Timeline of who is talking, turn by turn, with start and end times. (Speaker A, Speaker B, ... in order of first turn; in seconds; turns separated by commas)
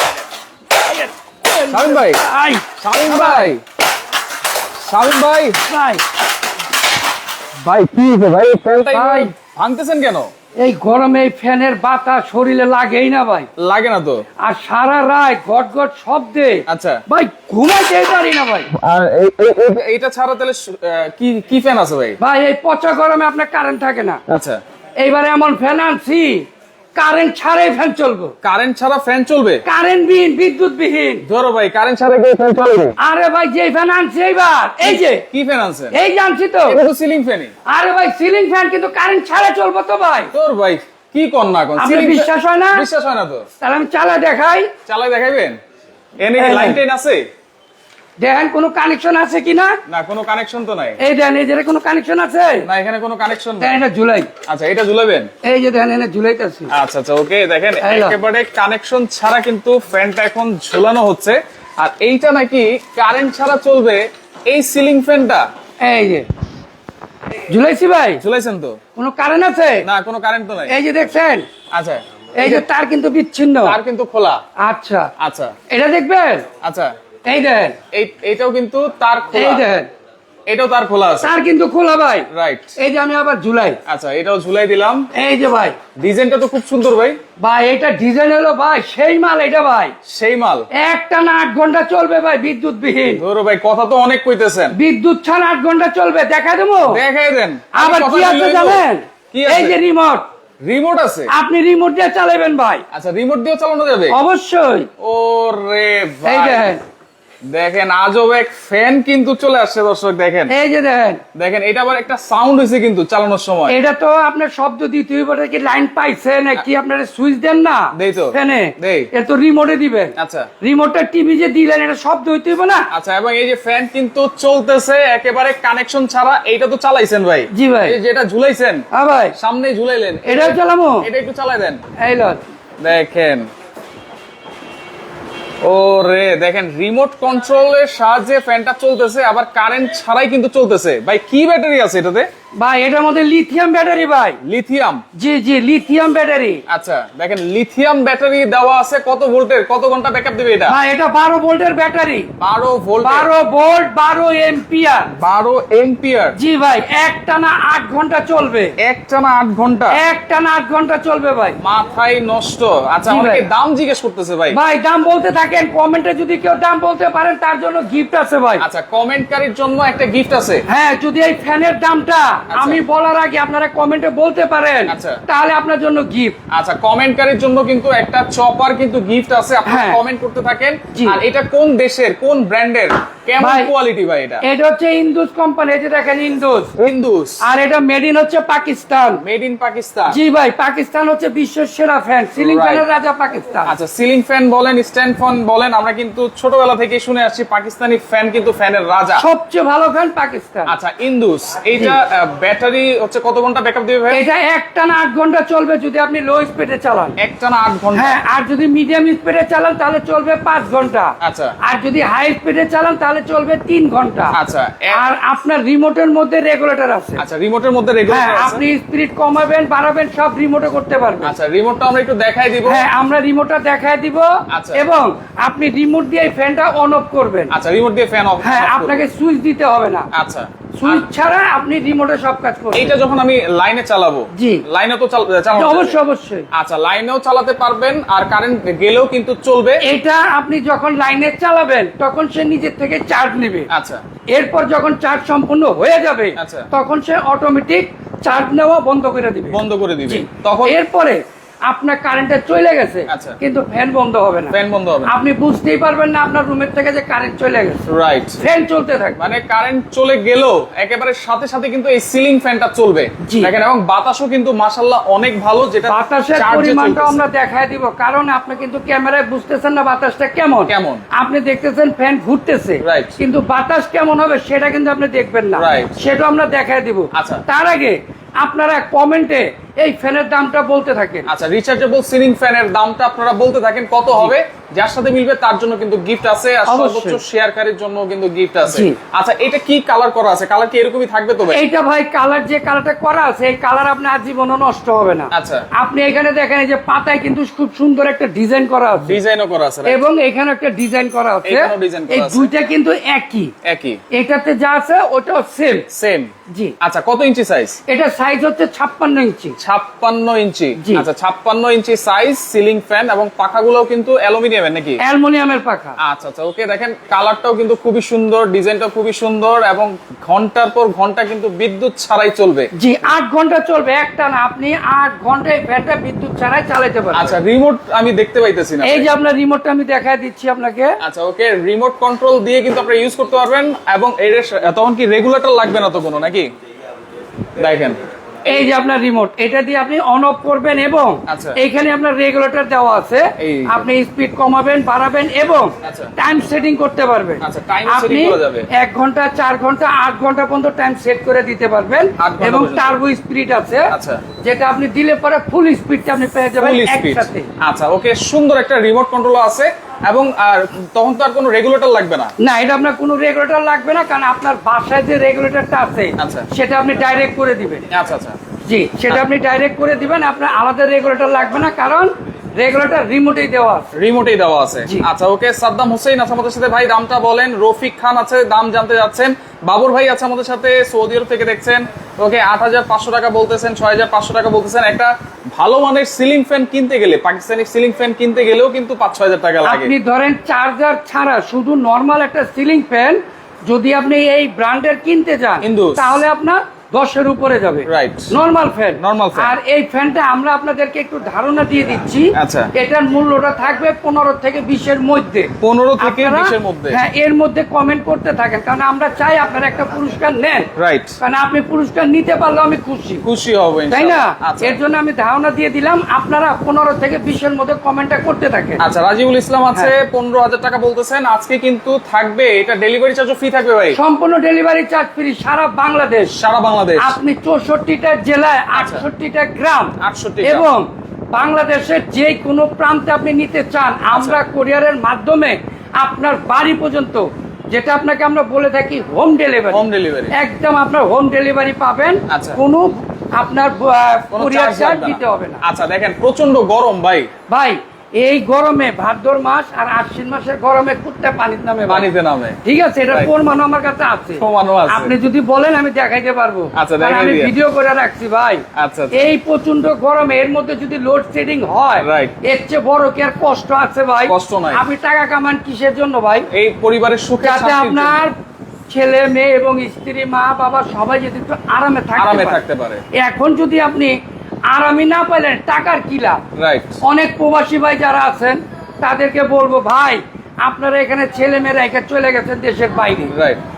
Speaker A: 0.8-3.5, Speaker B: 1.7-2.2, Speaker B: 2.8-3.6, Speaker B: 4.8-5.6, Speaker A: 5.7-6.0, Speaker B: 7.6-10.3, Speaker A: 8.9-9.3, Speaker A: 10.6-13.5, Speaker B: 13.6-14.2, Speaker A: 14.4-18.7, Speaker B: 16.7-17.0, Speaker B: 18.7-22.2, Speaker A: 22.2-24.2, Speaker B: 24.3-24.6, Speaker A: 25.0-28.3, Speaker B: 28.4-29.6, Speaker A: 29.6-31.2, Speaker B: 31.3-33.0, Speaker A: 33.0-35.2, Speaker B: 34.8-36.0, Speaker A: 35.9-36.8, Speaker B: 36.7-37.5, Speaker A: 37.7-40.3, Speaker B: 40.3-43.5, Speaker A: 41.8-42.9, Speaker A: 43.6-44.7, Speaker B: 44.9-45.6, Speaker B: 46.2-47.3, Speaker A: 46.4-46.8, Speaker A: 48.2-49.8, Speaker B: 49.9-51.0, Speaker A: 51.0-52.7, Speaker B: 52.6-53.8, Speaker A: 53.6-54.3, Speaker B: 54.5-55.3, Speaker A: 55.4-56.7, Speaker B: 56.7-65.5, Speaker A: 57.8-58.2, Speaker A: 65.8-66.3, Speaker A: 67.5-68.2, Speaker B: 68.2-68.8, Speaker A: 69.0-69.9, Speaker B: 69.8-70.7, Speaker A: 70.7-71.5, Speaker B: 71.7-72.6, Speaker A: 72.4-73.8, Speaker B: 73.6-74.4, Speaker A: 74.6-75.1, Speaker B: 75.2-75.5, Speaker A: 75.7-76.5, Speaker B: 76.6-76.9, Speaker A: 77.2-77.8, Speaker B: 77.9-79.7, Speaker A: 79.3-79.9, Speaker B: 80.5-81.3, Speaker A: 81.2-83.8, Speaker B: 82.3-82.7, Speaker B: 83.9-85.1, Speaker A: 85.1-85.8, Speaker B: 86.0-87.2, Speaker A: 87.4-89.9, Speaker B: 90.1-90.7, Speaker A: 90.8-93.2, Speaker B: 93.1-94.8, Speaker A: 94.7-97.0, Speaker B: 96.8-99.8, Speaker A: 97.7-100.2, Speaker B: 100.6-101.3, Speaker A: 101.3-102.8, Speaker B: 102.9-104.2, Speaker A: 104.1-104.9, Speaker B: 105.0-106.7, Speaker A: 106.2-106.8, Speaker B: 107.5-110.5, Speaker A: 110.5-111.2, Speaker B: 111.3-113.8, Speaker A: 113.7-122.9, Speaker B: 117.9-119.1, Speaker B: 120.2-120.5, Speaker B: 122.9-131.8, Speaker A: 127.5-128.0, Speaker A: 128.9-129.3, Speaker A: 130.2-131.1, Speaker A: 132.0-132.4, Speaker B: 132.8-133.5, Speaker B: 135.6-142.3, Speaker A: 142.6-144.4, Speaker B: 144.4-145.0, Speaker A: 145.1-146.6, Speaker B: 146.7-150.8, Speaker A: 150.7-152.3, Speaker B: 152.4-153.3, Speaker A: 153.0-155.1, Speaker B: 155.2-156.4, Speaker A: 156.3-158.7, Speaker B: 158.8-160.0, Speaker A: 159.9-161.6, Speaker B: 161.6-164.6, Speaker A: 163.1-163.4, Speaker A: 164.5-168.6, Speaker B: 168.6-170.6, Speaker A: 170.7-176.4, Speaker B: 172.5-172.8, Speaker B: 174.9-175.2, Speaker B: 176.5-184.4, Speaker A: 179.7-180.0, Speaker A: 180.9-181.2, Speaker A: 183.4-183.7, Speaker A: 184.4-186.7, Speaker B: 186.8-187.4, Speaker A: 187.4-189.2, Speaker B: 189.2-190.2, Speaker A: 190.1-193.7, Speaker B: 192.3-192.9, Speaker B: 193.7-199.2, Speaker A: 199.2-200.7, Speaker B: 200.7-204.2, Speaker A: 204.1-207.2, Speaker B: 207.2-208.2, Speaker A: 207.9-214.3, Speaker B: 211.2-211.6, Speaker B: 214.3-215.0, Speaker A: 214.9-217.2, Speaker B: 217.2-218.6, Speaker A: 218.1-221.3, Speaker B: 221.2-222.8, Speaker A: 222.7-227.5, Speaker B: 224.5-224.8, Speaker B: 227.5-229.1, Speaker A: 228.4-230.1, Speaker B: 230.1-231.1, Speaker A: 230.8-232.9, Speaker B: 232.7-236.0, Speaker A: 234.3-234.6, Speaker A: 235.5-236.5, Speaker B: 236.5-239.8, Speaker A: 239.8-243.7, Speaker B: 243.7-244.0, Speaker A: 244.3-254.6, Speaker B: 246.3-246.7, Speaker B: 249.5-250.8, Speaker B: 253.1-253.4, Speaker B: 254.5-255.1, Speaker A: 255.1-257.9, Speaker B: 257.9-258.4, Speaker A: 258.4-259.2, Speaker B: 259.2-267.2, Speaker A: 263.2-263.5, Speaker A: 265.9-281.3, Speaker B: 270.7-271.0, Speaker B: 272.8-273.2, Speaker B: 275.6-276.0, Speaker B: 277.1-277.4, Speaker B: 281.3-291.6, Speaker A: 286.7-287.2, Speaker A: 288.7-289.0, Speaker A: 291.5-299.2, Speaker B: 295.3-295.7, Speaker B: 299.0-300.0, Speaker A: 299.9-303.5, Speaker B: 301.4-302.5, Speaker B: 303.6-304.0, Speaker A: 304.1-305.9, Speaker B: 305.9-307.8, Speaker A: 306.5-306.7, Speaker A: 307.9-309.6, Speaker B: 309.6-315.0, Speaker A: 310.8-311.1, Speaker A: 315.0-316.0, Speaker B: 316.0-322.7, Speaker A: 322.8-327.4, Speaker B: 327.1-329.1, Speaker A: 328.8-330.9, Speaker B: 331.0-336.5, Speaker B: 337.6-338.0, Speaker A: 338.5-353.9, Speaker B: 341.3-341.6, Speaker B: 343.4-343.9, Speaker B: 345.8-346.1, Speaker B: 347.4-348.7, Speaker B: 352.2-353.0, Speaker B: 353.9-354.2, Speaker A: 354.4-357.5, Speaker B: 356.6-362.3, Speaker A: 362.4-367.9, Speaker B: 366.2-366.5, Speaker B: 367.9-368.4, Speaker A: 368.6-373.9, Speaker B: 374.0-389.9, Speaker A: 389.6-410.7, Speaker B: 395.6-396.2, Speaker B: 397.9-398.3, Speaker B: 399.0-399.6, Speaker B: 402.4-402.7, Speaker B: 405.6-407.0, Speaker B: 410.8-411.2, Speaker A: 411.2-413.2, Speaker B: 413.2-414.8, Speaker A: 413.9-418.8, Speaker B: 418.8-424.0, Speaker A: 423.9-426.3, Speaker B: 426.3-427.2, Speaker A: 427.0-445.6, Speaker B: 428.8-429.1, Speaker B: 430.0-430.7, Speaker B: 434.1-434.4, Speaker B: 439.7-440.4, Speaker B: 442.3-442.6, Speaker B: 444.3-447.3, Speaker A: 447.5-452.1, Speaker B: 451.9-452.6, Speaker A: 452.6-466.5, Speaker B: 454.4-455.2, Speaker B: 456.8-457.5, Speaker B: 458.8-459.3, Speaker B: 462.0-462.4, Speaker B: 464.3-464.8, Speaker B: 466.5-468.2, Speaker A: 467.4-468.4, Speaker A: 468.9-472.6, Speaker B: 472.2-473.0, Speaker A: 473.1-474.1, Speaker A: 474.7-476.4, Speaker B: 476.6-477.0, Speaker A: 477.0-483.3, Speaker B: 483.2-483.6